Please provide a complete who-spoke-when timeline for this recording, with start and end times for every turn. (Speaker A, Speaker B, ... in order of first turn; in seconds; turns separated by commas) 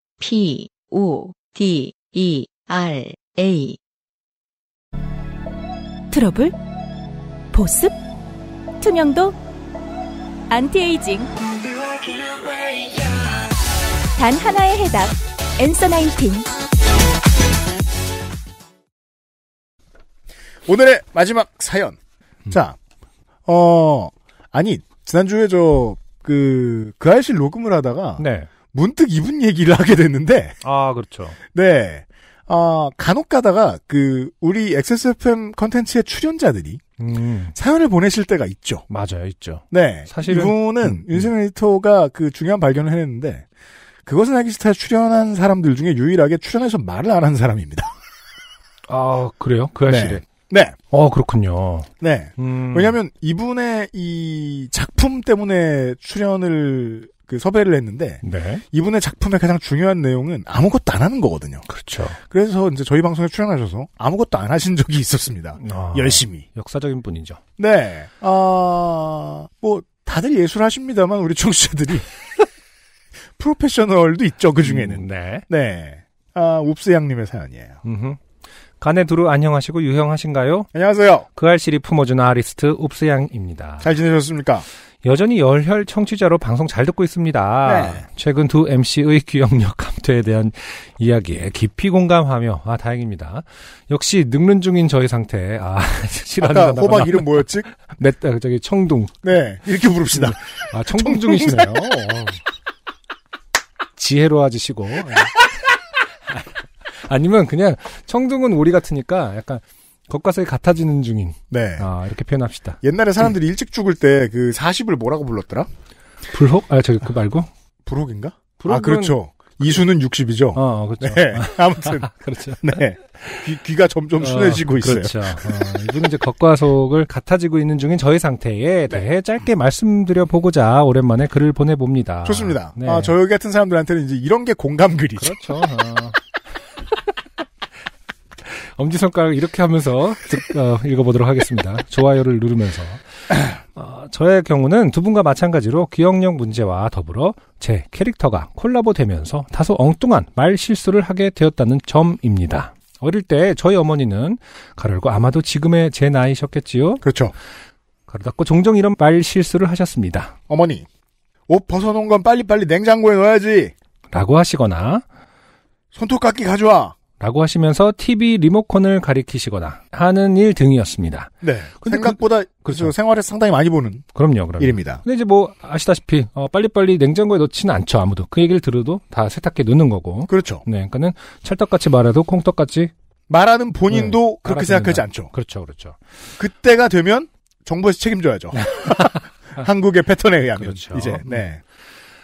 Speaker A: 0.2-3.8, Speaker B: 6.1-6.5, Speaker B: 7.5-8.0, Speaker B: 8.8-9.4, Speaker B: 10.5-11.3, Speaker B: 14.2-16.5, Speaker C: 20.6-22.0, Speaker C: 22.5-22.8, Speaker C: 23.4-30.6, Speaker D: 28.2-28.5, Speaker D: 30.6-31.4, Speaker C: 31.5-36.8, Speaker D: 37.0-37.5, Speaker C: 37.5-38.9, Speaker D: 38.9-41.3, Speaker C: 39.7-43.5, Speaker C: 44.0-47.9, Speaker D: 48.9-50.2, Speaker C: 49.9-50.8, Speaker D: 50.9-53.0, Speaker C: 52.0-61.6, Speaker D: 58.2-58.6, Speaker D: 61.7-62.2, Speaker C: 62.2-66.4, Speaker D: 65.6-67.4, Speaker C: 67.6-72.1, Speaker C: 73.4-77.8, Speaker D: 74.6-75.4, Speaker D: 77.8-78.2, Speaker D: 78.8-80.7, Speaker C: 80.7-81.3, Speaker D: 81.3-83.9, Speaker C: 83.8-84.7, Speaker D: 85.0-99.2, Speaker C: 87.6-88.0, Speaker C: 96.4-97.7, Speaker C: 99.2-102.2, Speaker D: 100.1-102.4, Speaker D: 104.0-105.4, Speaker D: 106.3-112.8, Speaker C: 111.5-111.8, Speaker C: 112.8-115.7, Speaker D: 116.3-117.5, Speaker C: 117.8-125.6, Speaker D: 118.6-119.8, Speaker D: 120.5-123.5, Speaker D: 124.2-133.1, Speaker C: 132.2-135.4, Speaker D: 135.2-136.2, Speaker D: 138.4-157.0, Speaker C: 157.0-157.3, Speaker D: 158.1-160.3, Speaker C: 160.5-160.8, Speaker C: 161.5-163.7, Speaker D: 164.1-165.0, Speaker C: 165.9-167.0, Speaker D: 167.2-172.9, Speaker C: 171.4-174.0, Speaker D: 174.1-182.9, Speaker C: 174.6-175.0, Speaker C: 180.3-180.6, Speaker C: 183.3-185.3, Speaker D: 183.9-186.0, Speaker C: 186.4-191.6, Speaker D: 188.6-189.2, Speaker D: 190.6-191.4